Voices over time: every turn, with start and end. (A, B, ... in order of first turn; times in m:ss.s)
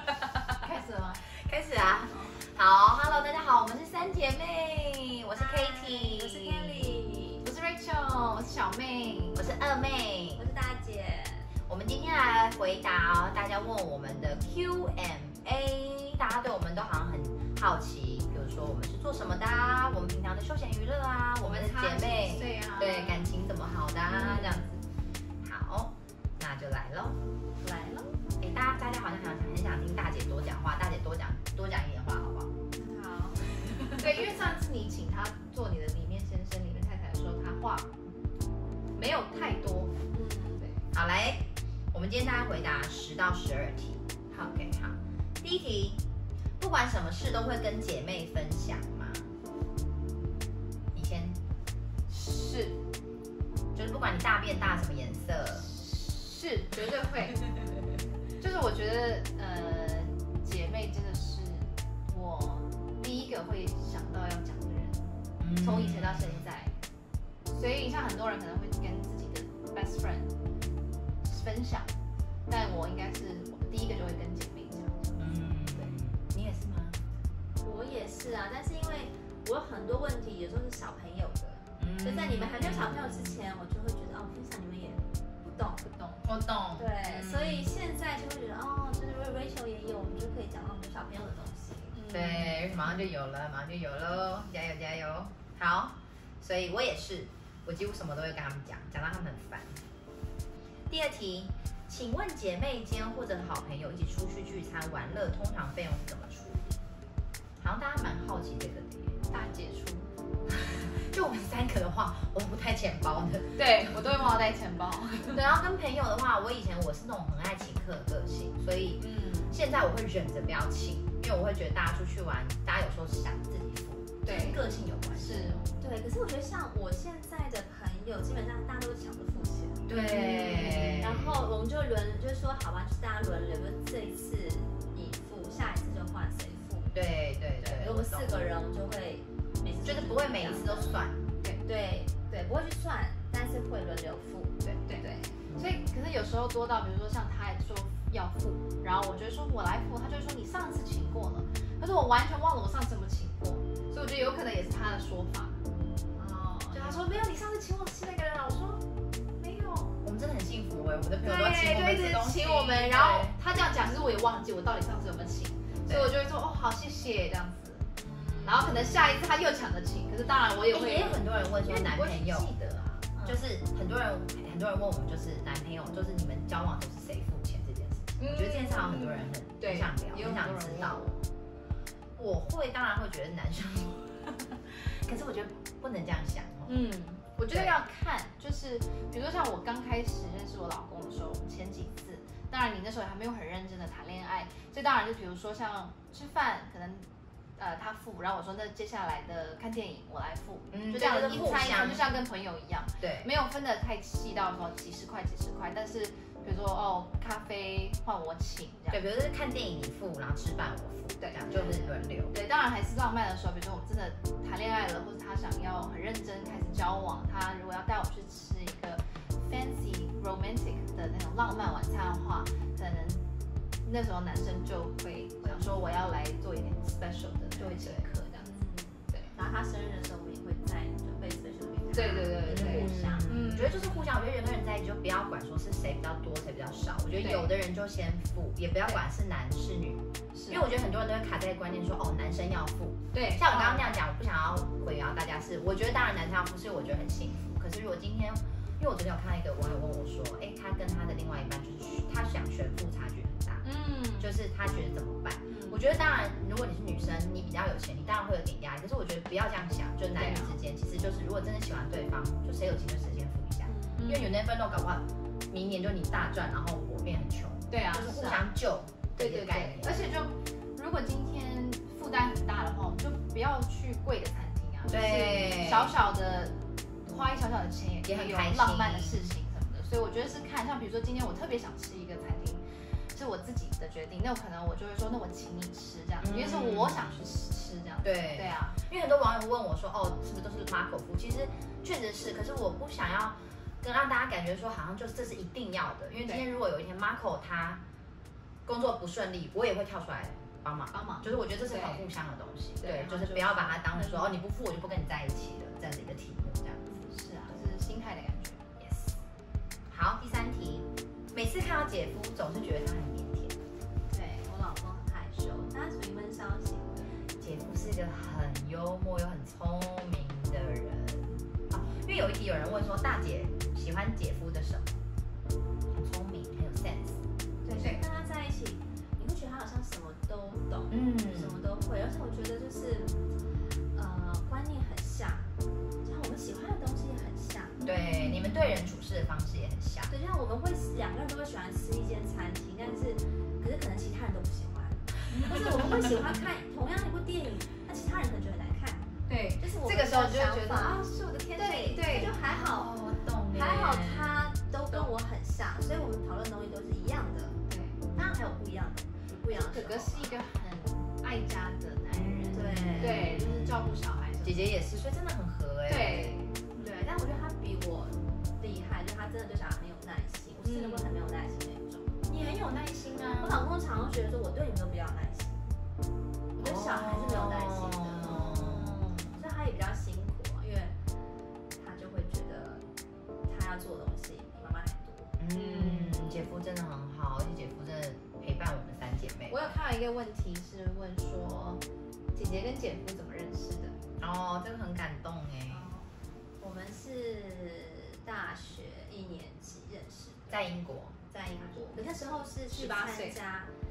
0:00.6-0:01.2 A
0:01.4-0:06.9 B
0:05.4-0:07.4 C
0:07.4-0:09.4 A
0:09.3-0:10.4 B
0:10.4-0:11.5 C
0:11.7-0:24.7 B
0:21.4-0:23.3 A
0:24.1-0:24.8 A
0:25.4-0:27.2 B
0:27.6-0:28.2 C
0:28.4-0:32.5 B
0:32.7-0:34.0 C
0:33.9-0:37.9 A
0:39.0-0:40.0 A
0:40.1-0:40.7 C
0:40.9-0:46.0 B
0:44.3-0:44.7 A
0:46.6-0:49.3 B
0:50.9-0:51.4 B
0:52.1-0:52.8 A
0:53.7-0:55.7 B
0:55.5-0:57.4 A
0:58.4-1:06.7 A
1:05.4-1:06.5 B
1:07.5-1:10.3 A
1:11.2-1:11.9 A
1:12.5-1:16.0 A
1:15.2-1:17.0 B
1:17.6-1:26.2 C
1:21.8-1:23.3 B
1:26.2-1:27.7 B
1:26.7-1:32.0 C
1:31.9-1:33.0 A
1:32.1-1:39.8 B
1:40.9-1:46.8 B
1:47.6-1:49.2 B
1:49.3-1:50.1 A
1:50.7-1:54.1 B
1:53.6-1:55.4 A
1:55.3-2:05.5 B
1:59.0-1:59.6 A
2:04.2-2:04.6 A
2:05.2-2:05.7 A
2:05.8-2:09.8 C
2:09.9-2:11.4 B
2:09.9-2:11.0 A
2:11.0-2:17.0 C
2:16.9-2:18.4 B
2:17.6-2:21.0 C
2:19.8-2:21.2 B
2:21.6-2:25.3 C
2:24.9-2:35.6 A
2:25.5-2:25.8 B
2:36.2-2:37.2 C
2:36.7-2:38.5 A
2:36.8-2:38.8 B
2:39.4-2:39.9 A
2:39.9-2:43.4 B
2:41.2-2:53.4 A
2:48.0-2:49.2 B
2:50.7-2:52.5 B
2:53.2-3:01.1 B
2:58.2-3:01.2 A
3:02.2-3:06.8 B
3:06.6-3:29.0 A
3:20.7-3:22.2 B
3:23.0-3:23.3 B
3:28.9-3:32.3 B
3:31.2-3:43.2 A
3:43.8-3:48.5 A
3:45.4-3:45.7 C
3:47.6-3:53.4 C
3:51.9-3:53.9 A
3:52.4-4:13.6 B
3:57.2-3:57.5 A
4:00.3-4:00.7 A
4:03.1-4:04.0 A
4:13.6-4:14.3 A
4:14.2-4:30.1 B
4:15.5-4:15.8 A
4:20.1-4:20.6 A
4:23.7-4:24.0 C
4:23.9-4:24.4 A
4:27.7-4:28.5 A
4:29.2-4:48.8 A
4:34.9-4:35.9 B
4:38.0-4:39.3 B
4:46.2-4:47.2 B
4:48.0-4:57.8 B
4:58.6-5:07.1 B
5:00.9-5:02.0 A
5:02.8-5:04.3 A
5:07.0-5:08.6 A
5:08.8-5:09.2 B
5:09.9-5:13.6 B
5:14.1-5:17.2 C
5:17.4-5:25.0 B
5:25.9-5:28.0 B
5:27.6-5:33.2 C
5:27.7-5:28.0 A
5:30.9-5:31.6 B
5:33.9-5:35.5 C
5:36.0-5:37.8 C
5:37.8-5:38.8 A
5:37.8-5:40.1 B
5:40.1-5:57.6 C
5:45.3-5:46.1 A
5:49.3-5:52.4 A
5:52.4-5:54.5 B
5:54.9-5:55.2 A
5:57.7-5:58.0 A
5:58.1-6:00.4 C
5:59.6-6:04.7 A
6:02.1-6:06.4 B
6:02.5-6:03.4 C
6:05.9-6:06.7 A
6:06.8-6:12.2 C
6:10.6-6:11.1 A
6:12.3-6:13.6 B
6:13.4-6:15.8 C
6:16.6-6:21.0 C
6:16.6-6:19.4 B
6:21.7-6:22.8 C
6:23.5-6:25.3 C
6:25.4-6:29.7 B
6:25.5-6:26.4 A
6:29.5-6:31.8 A
6:32.3-6:34.0 A
6:34.2-6:35.9 B
6:35.7-6:40.7 C
6:40.5-6:41.2 B
6:41.4-6:43.7 C
6:41.4-6:43.4 A